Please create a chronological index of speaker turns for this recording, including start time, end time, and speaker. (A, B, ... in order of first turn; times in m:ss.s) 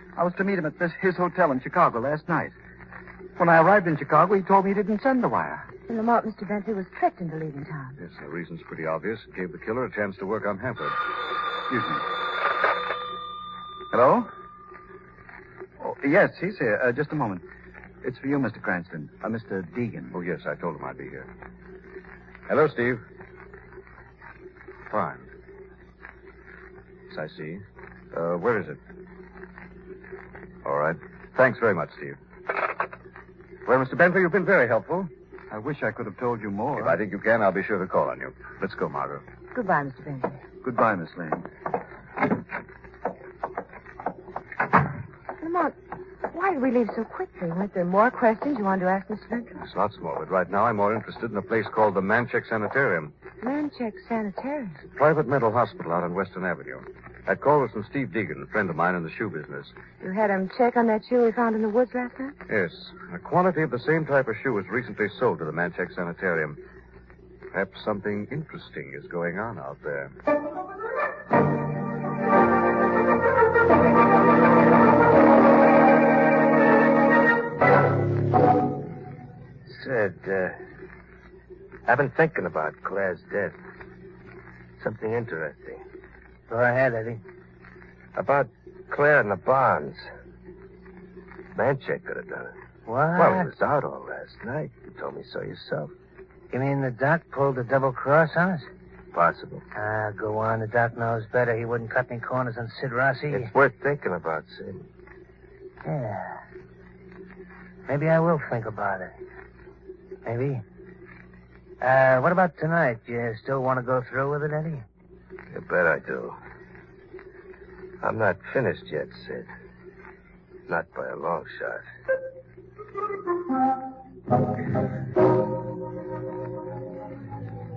0:00.2-0:02.5 A
0:03.4-0:05.6 A
0:05.9-0:08.0 B
0:08.0-0:11.0 C
0:11.7-0:12.0 A
0:13.9-0:14.3 A
0:15.8-0:17.4 A
0:18.0-0:20.1 A
0:20.1-0:21.3 C
0:22.5-0:23.0 C
0:24.9-0:25.3 C
0:27.1-0:28.8 C
0:30.6-0:32.2 C
0:33.6-0:35.1 C
0:35.5-0:37.0 A
0:36.7-0:39.2 C
0:39.5-0:40.4 B
0:40.6-0:41.5 A
0:45.4-0:45.8 B
0:46.3-0:49.6 B
0:49.6-0:53.1 C
0:53.4-0:54.8 B
0:54.9-0:59.7 C
1:00.0-1:02.4 B
1:02.5-1:06.6 C
1:07.5-1:10.1 C
1:19.7-1:20.5 D
1:21.9-1:23.5 D
1:24.8-1:25.8 D
1:26.5-1:27.2 E
1:28.2-1:30.1 D
1:31.5-1:32.5 D
1:32.9-1:33.5 E
1:33.1-1:35.9 D
1:36.5-1:38.7 E
1:39.1-1:39.6 D
1:39.7-1:43.5 E
1:43.3-1:44.8 D
1:45.8-1:46.3 E
1:47.9-1:49.1 E
1:50.2-1:50.6 E
1:51.8-1:54.8 E
1:55.5-1:56.4 D
1:58.0-1:59.5 D
2:00.7-2:01.8 D